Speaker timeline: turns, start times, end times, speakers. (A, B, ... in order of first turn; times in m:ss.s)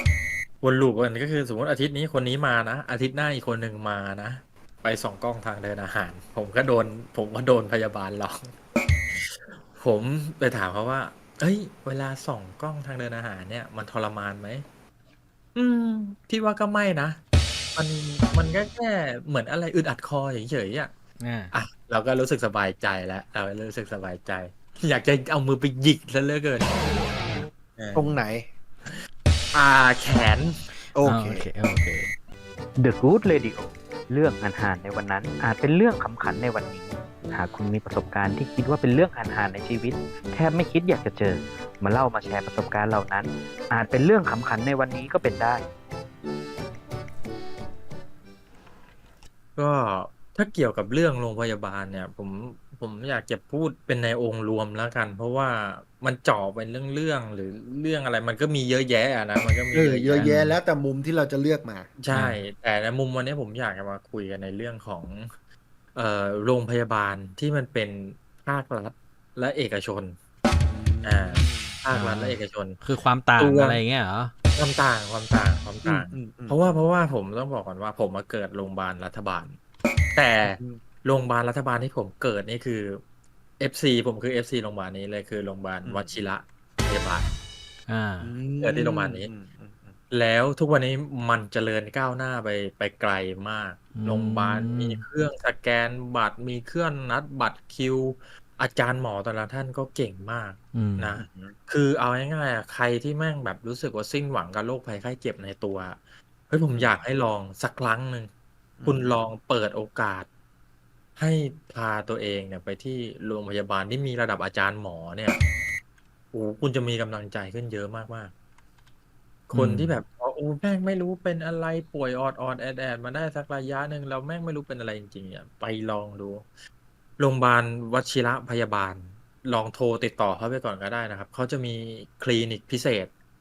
0:00.6-0:08.5 A
0:09.1-0:14.6 A
0:15.6-0:17.2 A
0:17.8-0:20.9 A
0:21.2-0:21.5 B
0:21.5-0:26.9 A
0:27.8-0:28.2 A
0:27.9-0:28.5 C
0:29.5-0:30.5 A
0:30.9-0:31.5 C
0:31.0-0:32.1 B
0:32.8-0:45.6 D
0:49.6-1:00.3 A
0:59.7-1:01.9 C
1:00.2-1:00.6 B
1:02.0-1:05.3 A
1:02.1-1:02.4 B
1:05.9-1:10.2 A
1:10.6-1:11.8 C
1:11.0-1:12.8 A
1:11.9-1:14.3 B
1:13.4-1:13.8 A
1:14.5-1:19.6 A
1:15.8-1:16.6 C
1:20.2-1:23.0 A
1:20.4-1:20.8 C
1:23.6-1:27.3 A
1:25.8-1:26.2 C
1:27.9-1:28.3 B
1:28.2-1:30.0 C
1:28.6-1:29.3 A
1:30.1-1:46.0 A
1:34.0-1:35.0 B
1:40.7-1:41.2 B
1:41.2-1:41.6 C
1:46.5-1:48.3 A
1:46.7-1:47.0 C
1:48.8-1:49.2 C
1:48.9-1:50.3 A
1:51.2-1:55.4 A
1:56.3-1:58.3 A
1:59.5-2:06.5 A
1:59.5-1:59.9 B
2:07.2-2:13.1 A